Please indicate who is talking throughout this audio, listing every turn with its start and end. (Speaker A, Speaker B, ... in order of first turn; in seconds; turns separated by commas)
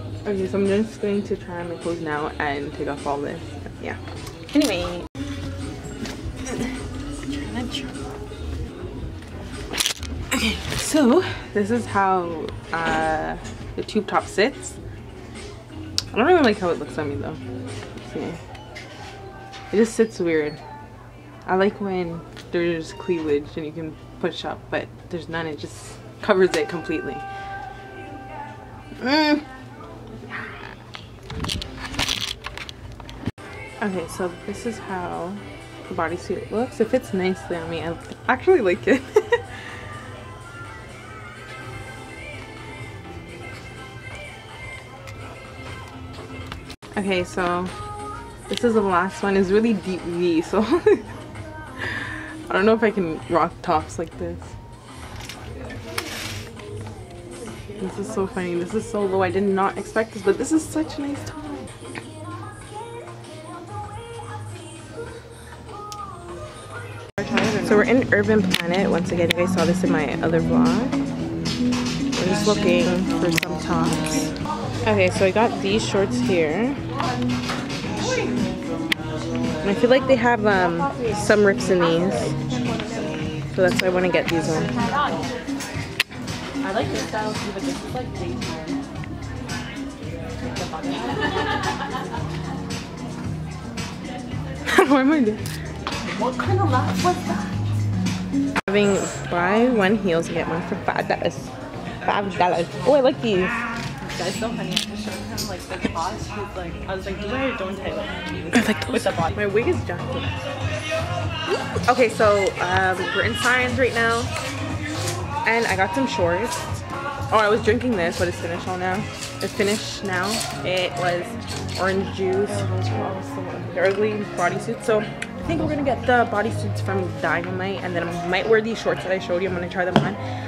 Speaker A: 0.2-4.0, Speaker A: 4.5-5.1, Speaker A: 7.4-8.0, Speaker A: 10.3-14.8, Speaker A: 16.1-17.4, Speaker A: 18.0-18.4, Speaker A: 19.7-20.6, Speaker A: 21.5-27.2, Speaker A: 29.0-29.4, Speaker A: 33.8-39.4, Speaker A: 47.0-47.7, Speaker A: 48.5-51.0, Speaker A: 51.8-54.5, Speaker A: 57.8-61.7, Speaker B: 67.2-67.7, Speaker A: 67.6-71.0, Speaker A: 72.2-74.3, Speaker A: 74.8-76.8, Speaker B: 78.0-78.5, Speaker A: 79.6-82.4, Speaker A: 83.5-84.8, Speaker B: 86.6-88.8, Speaker B: 90.4-91.3, Speaker A: 94.7-95.4, Speaker B: 96.0-97.6, Speaker A: 98.6-101.5, Speaker A: 102.0-103.6, Speaker B: 104.0-109.4, Speaker A: 108.5-110.4, Speaker A: 111.5-114.3, Speaker A: 115.4-122.6, Speaker B: 122.5-123.8, Speaker A: 123.7-130.2